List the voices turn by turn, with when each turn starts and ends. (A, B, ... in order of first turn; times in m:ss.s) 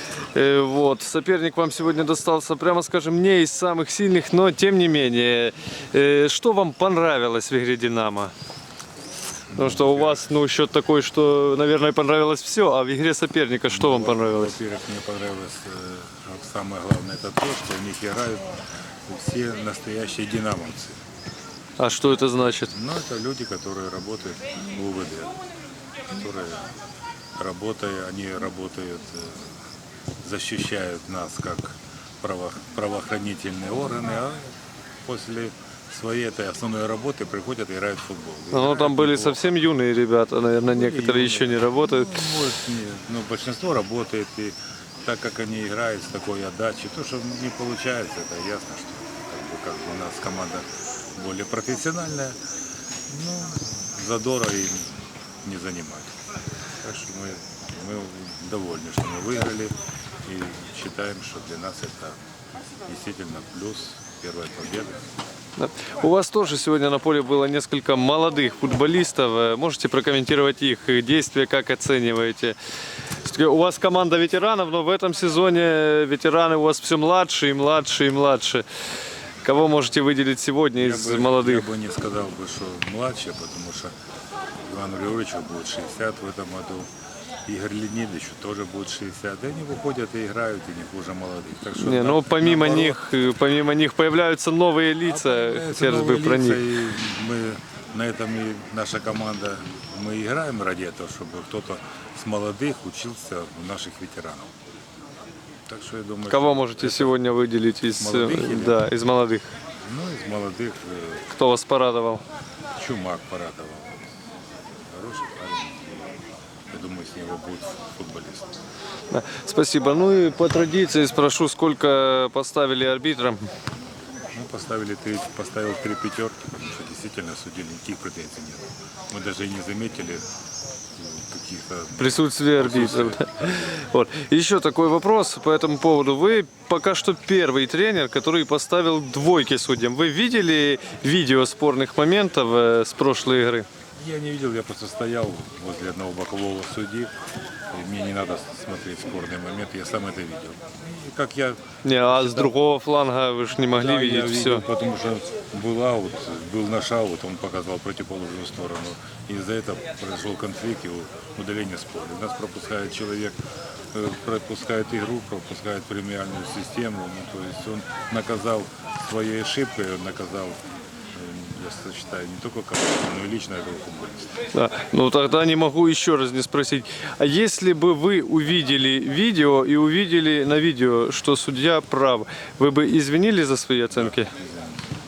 0:00.3-0:08.3 A
0:09.5-0:10.2 B
0:09.5-0:14.6 A
0:13.7-0:18.5 B
0:19.1-0:21.0 B
0:21.8-0:22.7 A
0:22.3-0:25.4 B
0:26.1-0:26.7 B
0:27.4-0:29.6 B
0:30.2-0:39.5 B
0:38.5-0:42.3 A
0:40.6-0:52.4 B
0:53.1-0:56.2 B
0:56.8-1:02.2 B
1:02.8-1:05.0 B
1:05.6-1:12.6 A
1:13.2-1:18.6 A
1:19.4-1:21.7 A
1:20.8-1:23.9 B
1:24.6-1:26.9 B
1:27.4-1:33.0 B
1:31.7-1:36.6 A
1:35.0-1:44.5 B
1:45.7-1:47.1 B
1:46.3-1:49.5 A
1:48.0-1:48.8 B
1:49.8-1:51.3 B
1:51.3-1:52.2 A
1:52.8-1:54.1 B
1:54.9-1:56.2 B
1:56.7-1:58.5 B
1:59.1-2:03.5 A
2:04.3-2:10.2 B
2:10.9-2:13.7 B
2:12.0-2:23.6 A
2:24.0-2:27.1 B
2:27.7-2:32.6 B
2:31.8-2:34.6 A
2:33.7-2:43.4 B
2:43.9-2:50.6 B
2:51.1-2:54.3 B
2:54.5-3:04.3 A
3:03.9-3:04.8 B